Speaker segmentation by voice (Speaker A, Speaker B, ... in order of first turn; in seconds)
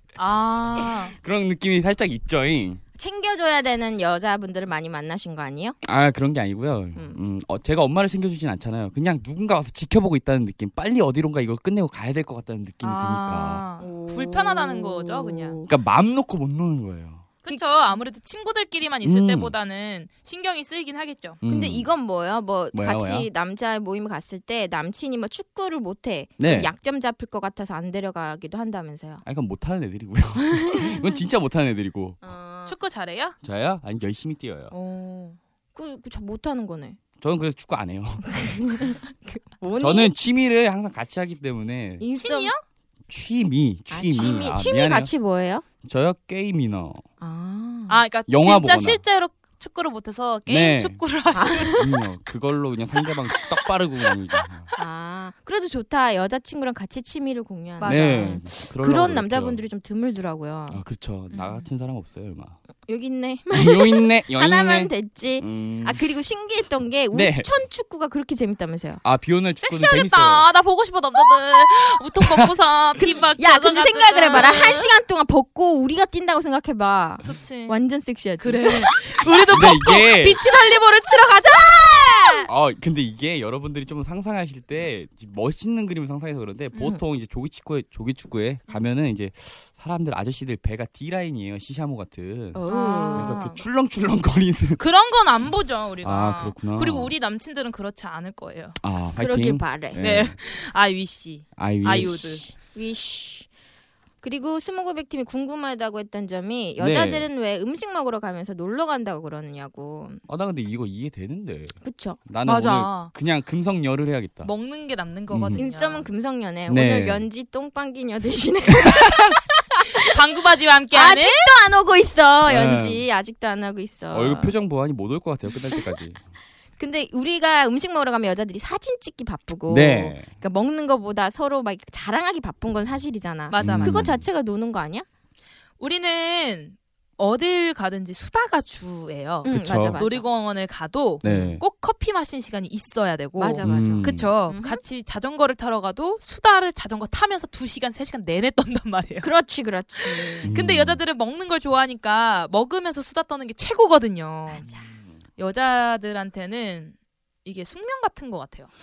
Speaker A: 0.2-1.1, 12.8-15.6, 17.4-21.4, 32.6-33.4, 34.7-35.4, 42.1-42.6, 47.9-51.8, 57.8-58.4, 61.3-61.6, 69.6-74.9, 77.2-77.8, 78.4-82.5, 92.7-93.6, 94.8-98.8, 100.0-102.4, 112.4-113.1, 114.4-116.1, 120.0-121.5, 133.5-134.0, 135.8-149.3, 150.0-154.7, 155.4-158.7
Speaker B: 1.1-2.8, 5.8-13.6, 15.7-17.2, 19.0-19.5, 21.4-21.9, 22.7-23.3, 26.4-26.7, 29.2-32.2, 33.4-34.7, 37.2-38.9, 39.8-42.0, 43.1-45.1, 45.8-47.0, 48.3-49.0, 50.5-51.0, 51.7-54.7, 57.8-59.6, 60.7-62.6, 63.5-66.0, 67.1-67.5, 69.0-70.5, 79.5-80.4, 82.5-94.8, 96.0-97.1, 98.8-100.3, 101.5-102.5, 106.8-107.3, 110.3-114.5, 115.3-115.6, 116.7-117.2, 122.5-123.0, 124.1-126.2, 129.7-130.3, 133.6-134.2, 139.5-140.0, 141.2-141.6, 143.6-144.3, 150.4-151.0
Speaker C: 3.0-5.8, 13.8-15.7, 21.4-29.2, 30.4-31.1, 32.2-32.8, 35.7-37.0, 38.3-40.1, 42.0-42.5, 43.9-45.6, 47.2-48.0, 51.3-52.0, 54.7-60.8, 62.9-69.0, 73.1-79.7, 81.6-82.5, 92.5-93.4, 99.2-100.0, 102.7-103.5, 104.2-110.2, 111.8-112.2, 115.5-120.0, 120.9-124.5, 125.6-126.0, 126.8-135.1, 139.4-140.2, 141.2-141.6, 143.4-144.8, 149.2-150.5, 154.5-154.9